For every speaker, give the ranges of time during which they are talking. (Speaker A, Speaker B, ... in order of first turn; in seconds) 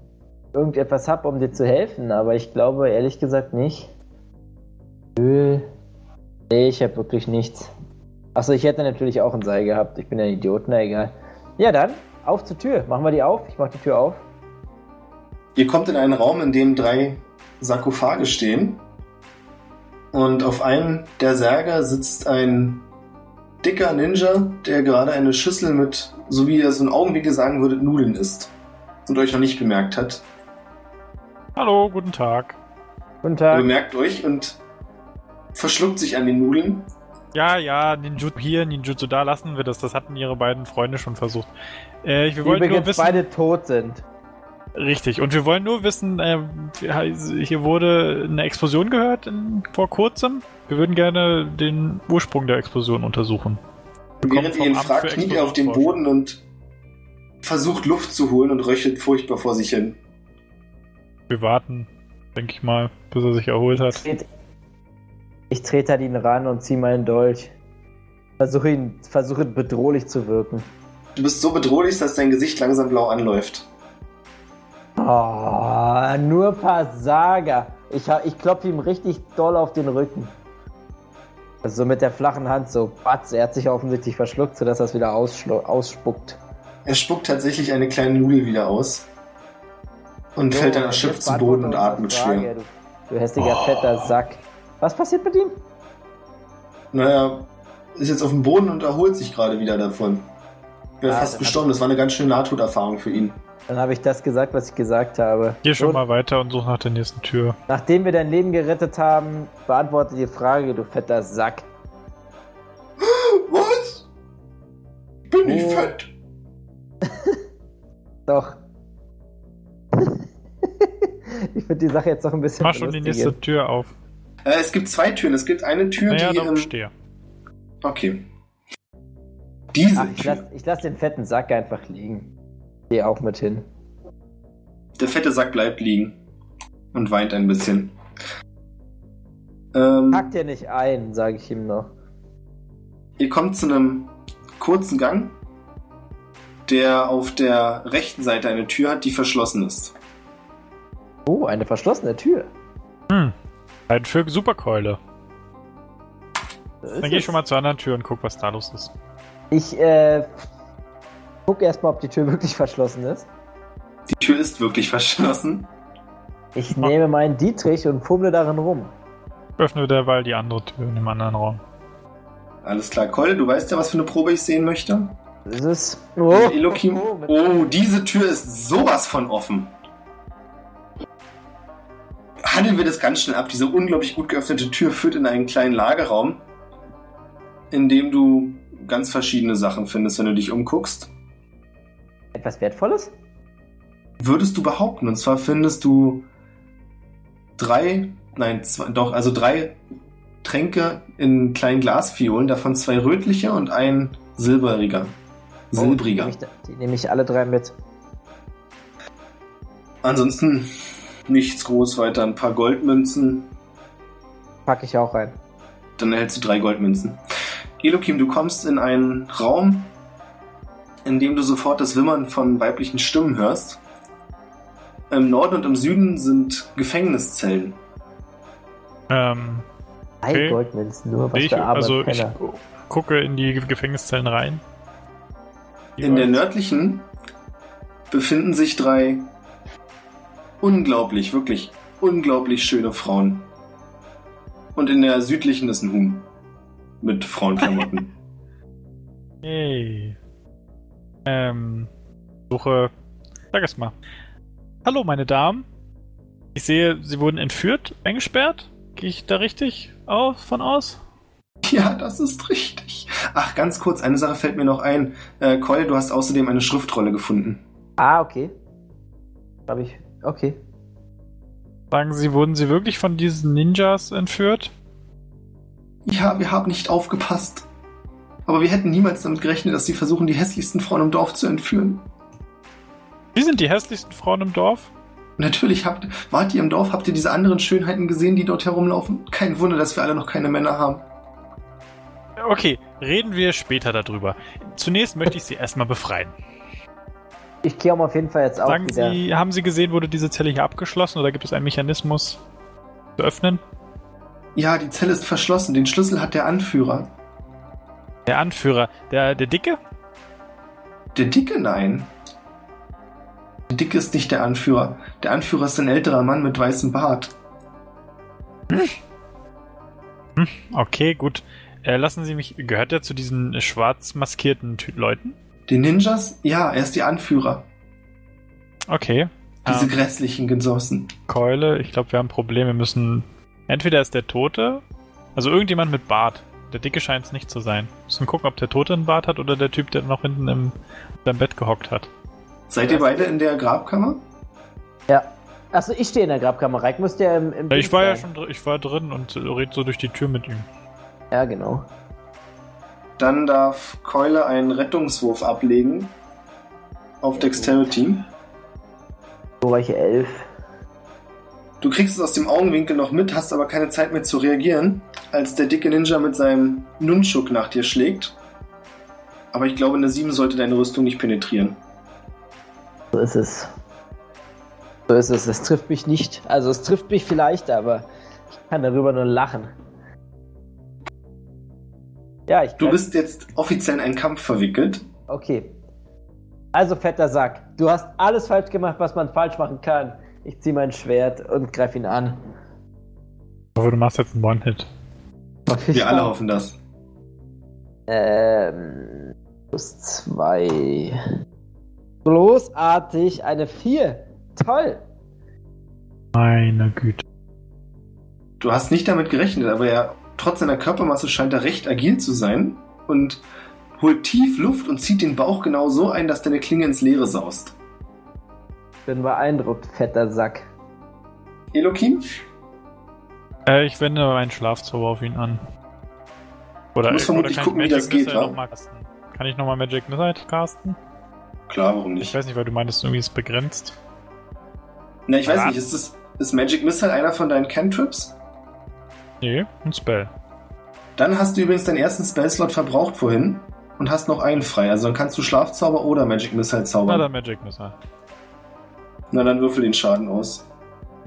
Speaker A: 0.5-3.9, 5.2-5.7, 6.5-7.7, 8.3-14.2, 33.2-33.7, 42.4-44.0, 64.0-64.3, 65.5-67.5, 68.4-70.7, 75.0-80.3, 81.6-86.4, 90.5-95.5, 101.0-101.7, 103.7-106.0, 107.7-111.7, 115.4-115.9, 117.0-117.4, 118.3-118.6, 120.0-120.2, 120.8-123.4, 129.9-132.3, 132.9-133.6, 140.1-141.9, 151.3-152.5, 156.8-157.3, 159.5-160.3, 161.4-163.3, 166.5-168.9, 175.5-177.4, 192.3-193.1, 205.8-207.7, 214.7-215.3, 230.2-232.3, 268.0-268.5, 269.7-270.6, 297.6-299.2, 342.8-343.3, 345.1-348.2, 351.3-351.8, 357.4-357.8, 359.6-360.5, 373.1-373.7, 375.1-378.1, 378.6-379.7, 382.5-383.0, 385.3-385.7, 386.7-392.4, 395.7-396.3, 398.1-401.2, 402.2-405.0, 419.1-420.7
Speaker B: 15.6-18.8, 20.1-22.8, 23.6-28.5, 29.1-30.2, 33.5-34.6, 35.5-36.9, 54.2-56.4, 57.4-60.0, 71.2-73.7, 86.8-89.1, 90.3-92.5, 96.9-100.3, 101.0-103.4, 113.0-114.0, 115.3-116.1, 124.4-126.7, 127.8-128.2, 129.7-130.4, 135.0-136.2, 136.9-137.9, 139.7-140.3, 143.2-145.3, 146.7-149.9, 164.1-165.7, 172.6-175.1, 176.3-179.7, 182.4-186.4, 187.7-191.1, 194.2-196.3, 197.6-199.8, 200.4-205.1, 205.7-206.3, 210.0-210.7, 211.3-213.5, 216.0-217.2, 217.8-219.9, 221.0-223.8, 225.1-227.8, 236.0-237.1, 238.1-239.3, 240.6-243.5, 244.8-246.2, 247.0-248.1, 261.6-267.6, 276.0-277.6, 278.5-282.0, 285.4-291.0, 304.5-307.1, 311.1-312.1, 313.7-317.3, 325.7-327.6, 329.6-331.1, 342.7-344.2, 353.2-356.1, 357.2-358.2, 361.8-368.3, 369.5-371.8, 382.8-385.0, 395.9-396.8, 408.6-413.4, 414.0-417.7, 421.7-422.3, 427.1-428.6, 431.7-432.3, 435.3-438.3, 441.2-447.3, 449.3-450.6
Speaker C: 31.6-32.6, 37.3-41.5, 42.0-43.2, 44.7-53.6, 54.2-56.0, 61.3-64.0, 93.4-94.1, 105.6-107.6, 122.6-123.9, 126.1-126.9, 153.1-153.3, 153.9-155.0, 157.0-158.9, 169.6-171.6, 229.1-229.6, 230.3-230.6, 231.3-234.6, 236.0-236.4, 249.4-250.2, 251.2-251.9, 252.5-252.9, 253.5-253.9, 254.8-255.6, 256.5-261.0, 271.9-274.7, 283.3-284.9, 292.4-296.3, 298.6-302.4, 303.2-303.6, 308.3-309.8, 320.4-325.4, 328.9-329.9, 331.3-334.8, 335.4-342.1, 347.7-350.6, 393.8-394.9, 406.3-407.2, 423.6-425.6, 426.9-431.0, 432.2-433.9, 435.4-435.8, 439.4-440.3, 447.1-447.9